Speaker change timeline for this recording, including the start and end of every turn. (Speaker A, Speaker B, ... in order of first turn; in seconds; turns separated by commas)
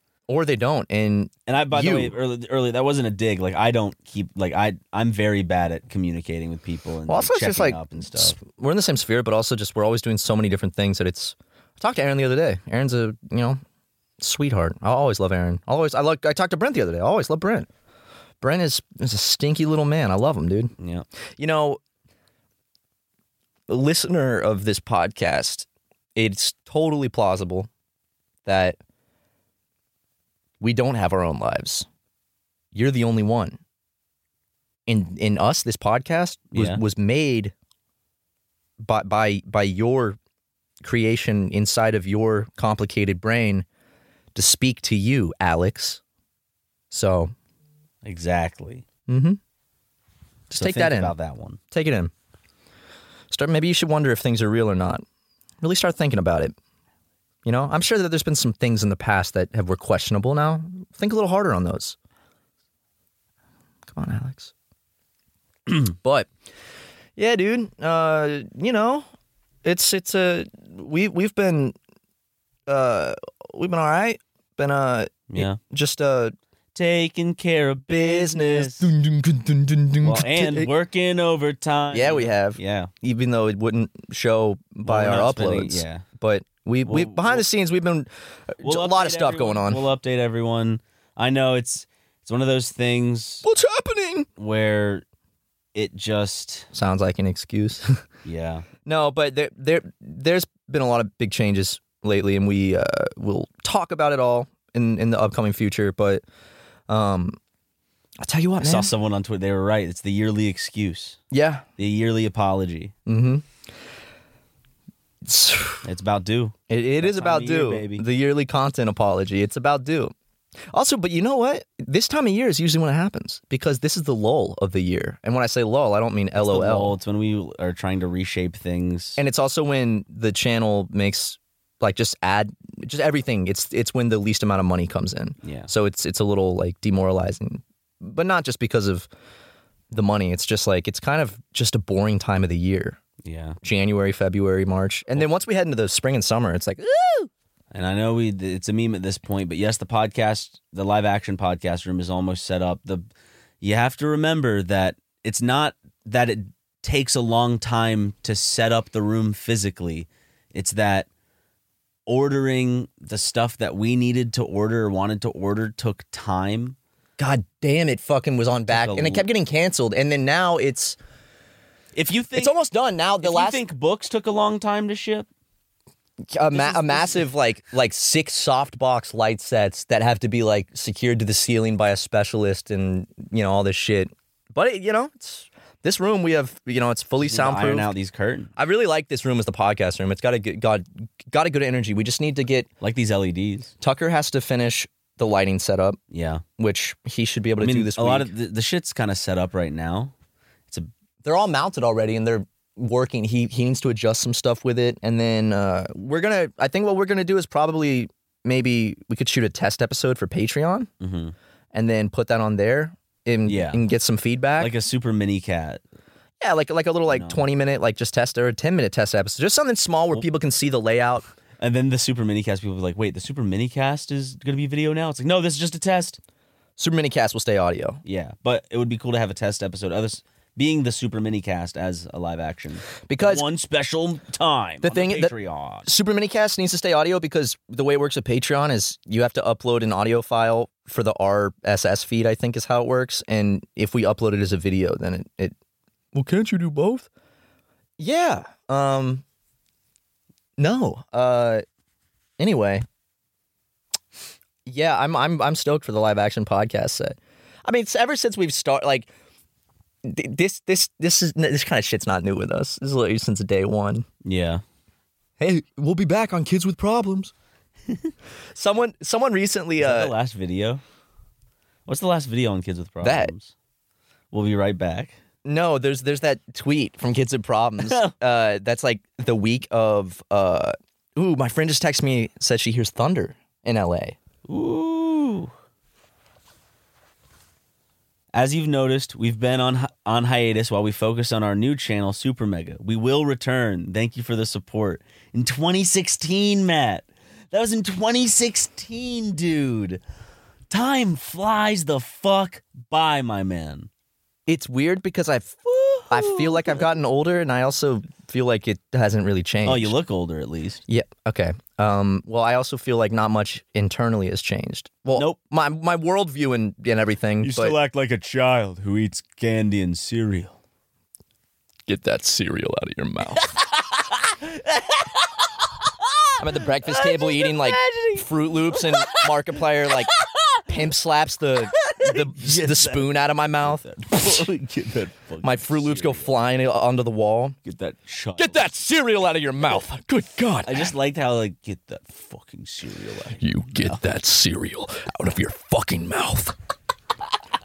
Speaker A: 0.3-2.1, Speaker B: 1.5-8.4, Speaker A: 7.1-13.6, Speaker A: 14.2-17.7, Speaker A: 18.4-20.7, Speaker B: 20.8-21.1, Speaker A: 21.4-21.8, Speaker A: 23.7-27.7, Speaker A: 28.4-28.8, Speaker A: 30.6-31.9, Speaker A: 32.7-33.6, Speaker A: 34.9-37.5, Speaker B: 36.5-36.8, Speaker A: 38.8-40.2, Speaker A: 40.8-43.6, Speaker A: 44.3-46.0, Speaker A: 46.9-47.3, Speaker B: 48.0-48.8, Speaker A: 49.1-49.4, Speaker A: 50.5-51.1, Speaker B: 50.5-51.6, Speaker A: 51.7-52.1, Speaker A: 53.3-55.0, Speaker A: 55.6-56.5, Speaker A: 57.4-62.0, Speaker A: 63.9-64.5, Speaker A: 65.7-66.3, Speaker A: 67.2-69.0, Speaker A: 69.6-71.8, Speaker A: 72.7-76.3, Speaker B: 75.3-75.6, Speaker B: 76.7-78.9, Speaker A: 77.9-80.7, Speaker B: 80.0-82.9, Speaker A: 81.9-89.8, Speaker B: 84.8-86.0, Speaker B: 86.8-87.4, Speaker B: 88.6-93.4, Speaker A: 93.4-94.3, Speaker B: 94.4-95.0, Speaker B: 95.7-96.7, Speaker A: 96.7-98.0, Speaker B: 98.2-98.7, Speaker A: 98.8-106.2, Speaker A: 106.9-107.4, Speaker A: 108.2-108.9, Speaker B: 108.6-111.2, Speaker A: 111.3-111.7, Speaker B: 111.8-112.9, Speaker A: 113.1-113.4, Speaker A: 115.2-115.8, Speaker B: 115.8-118.0, Speaker A: 116.7-120.1, Speaker A: 120.7-127.0, Speaker B: 126.4-129.2, Speaker A: 129.2-139.1, Speaker B: 135.4-135.7, Speaker A: 139.9-143.0, Speaker B: 143.2-143.6, Speaker A: 143.6-147.3, Speaker B: 147.7-153.1, Speaker B: 153.6-161.1, Speaker B: 162.1-166.8, Speaker A: 167.2-171.0, Speaker B: 168.7-169.2, Speaker B: 171.9-172.5, Speaker A: 172.3-173.6, Speaker B: 173.2-175.3, Speaker A: 176.3-187.9, Speaker B: 176.5-177.2, Speaker B: 187.2-188.5, Speaker A: 188.6-192.7, Speaker B: 192.8-193.7, Speaker A: 193.8-196.0, Speaker B: 196.1-196.4, Speaker A: 196.6-198.3, Speaker B: 197.6-200.1, Speaker A: 201.2-210.9, Speaker B: 211.0-211.3, Speaker A: 211.7-214.7, Speaker B: 213.4-213.8, Speaker B: 214.6-215.8, Speaker A: 216.4-221.2, Speaker B: 217.1-217.4, Speaker B: 221.6-226.2, Speaker A: 226.8-228.0, Speaker B: 228.0-235.9, Speaker A: 233.1-233.4, Speaker A: 234.8-235.3, Speaker A: 235.8-245.5, Speaker A: 246.1-247.1, Speaker A: 248.0-249.2, Speaker A: 250.6-251.6, Speaker A: 252.4-252.8, Speaker A: 254.7-259.1, Speaker A: 260.0-264.1, Speaker B: 264.2-264.6, Speaker A: 265.4-267.3, Speaker A: 268.5-270.1, Speaker B: 269.8-270.8, Speaker B: 271.9-273.5, Speaker A: 273.0-273.3, Speaker B: 274.3-275.1, Speaker A: 275.4-284.2, Speaker B: 277.8-278.1, Speaker B: 284.4-285.5, Speaker B: 288.3-300.0, Speaker B: 300.7-303.9, Speaker A: 304.5-309.9, Speaker B: 305.7-306.8, Speaker B: 309.6-310.8, Speaker A: 310.9-317.8, Speaker B: 315.1-315.4, Speaker B: 317.4-320.6, Speaker A: 321.9-323.5, Speaker B: 323.4-330.8, Speaker A: 326.4-330.1, Speaker A: 330.7-334.5, Speaker B: 331.7-336.4, Speaker A: 335.4-337.6, Speaker B: 337.6-338.7, Speaker A: 338.4-340.9, Speaker B: 340.6-344.0, Speaker A: 343.4-346.5